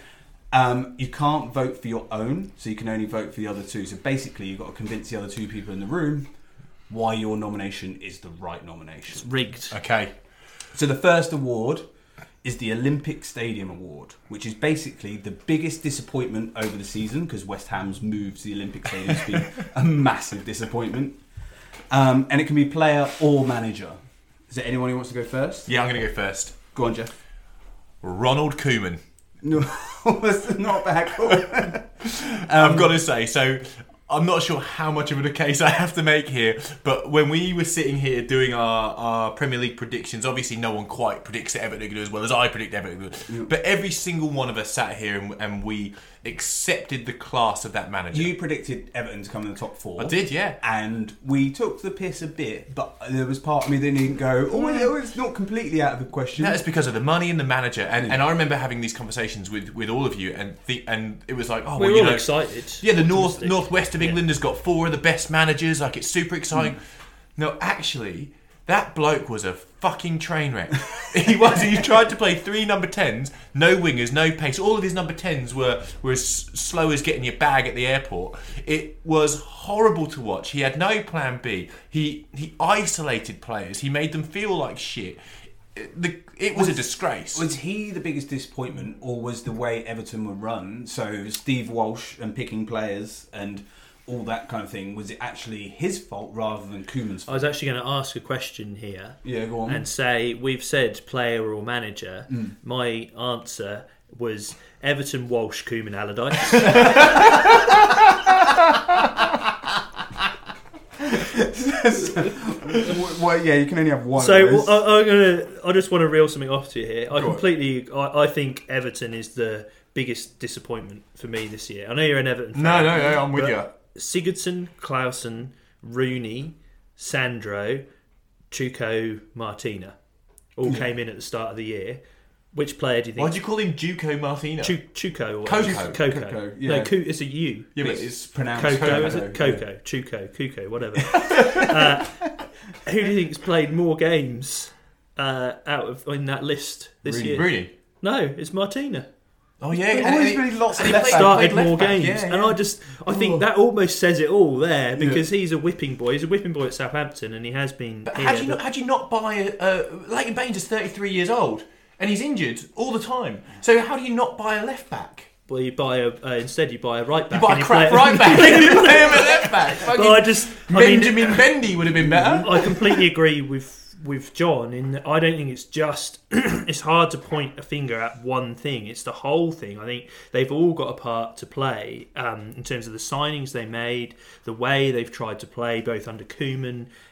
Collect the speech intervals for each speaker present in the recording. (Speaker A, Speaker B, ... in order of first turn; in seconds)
Speaker A: 0.5-6.3, 6.9-9.3, 10.7-11.8, 12.4-21.2, 21.9-24.0, 24.5-25.7, 26.7-27.1, 29.4-33.0, 48.1-56.6, 86.5-97.5, 99.2-99.8, 111.0-114.8, 135.6-136.9, 137.8-139.6, 141.1-142.0, 147.1-147.4, 149.9-152.0, 155.0-155.2, 172.1-172.6
Speaker B: 9.1-9.8, 61.8-64.2, 97.3-107.3, 114.2-127.8, 128.5-129.9, 130.6-132.0, 132.5-133.3, 134.6-137.8, 138.5-142.3, 142.8-149.1, 149.7-158.6, 165.5-171.4, 172.4-186.9
Speaker C: 9.7-10.1, 25.7-26.6, 28.0-29.0, 31.4-48.3, 50.0-50.6, 56.4-66.8, 67.4-85.2, 85.8-87.5, 117.2-117.4, 122.5-123.7, 133.2-134.8, 135.4-136.0, 137.8-139.2, 147.3-147.7, 149.6-152.6, 158.1-165.3, 167.3-172.8